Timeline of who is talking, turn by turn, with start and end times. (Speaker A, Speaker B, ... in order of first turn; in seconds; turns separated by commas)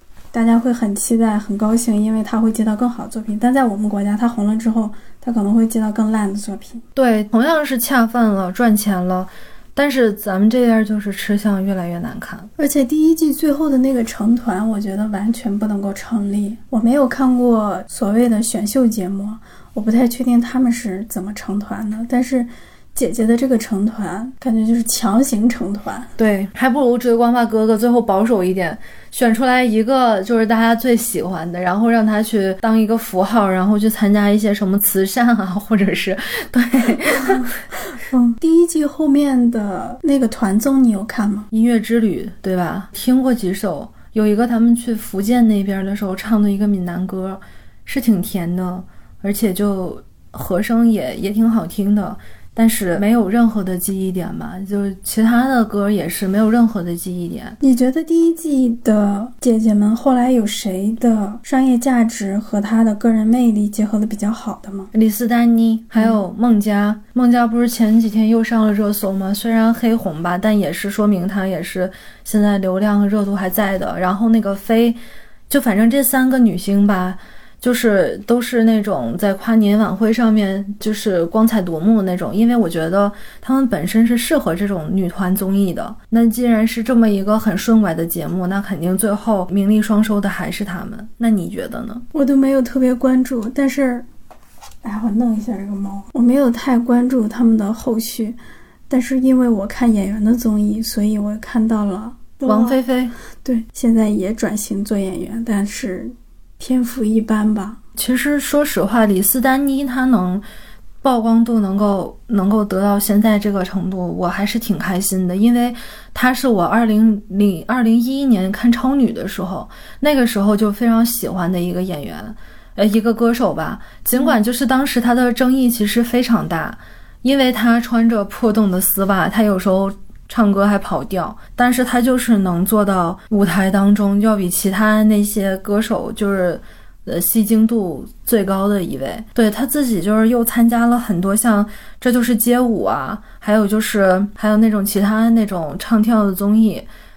Speaker A: 0.3-6.8, Speaker B: 6.9-12.5, Speaker A: 12.6-26.1, Speaker B: 26.1-37.5, Speaker A: 38.1-41.5, Speaker B: 41.5-57.6, Speaker A: 57.6-64.9, Speaker B: 64.9-92.0, Speaker A: 92.1-94.0, Speaker A: 94.8-98.4, Speaker A: 98.9-102.8, Speaker B: 102.4-103.1, Speaker A: 103.4-107.8, Speaker B: 108.0-110.4, Speaker B: 111.0-146.9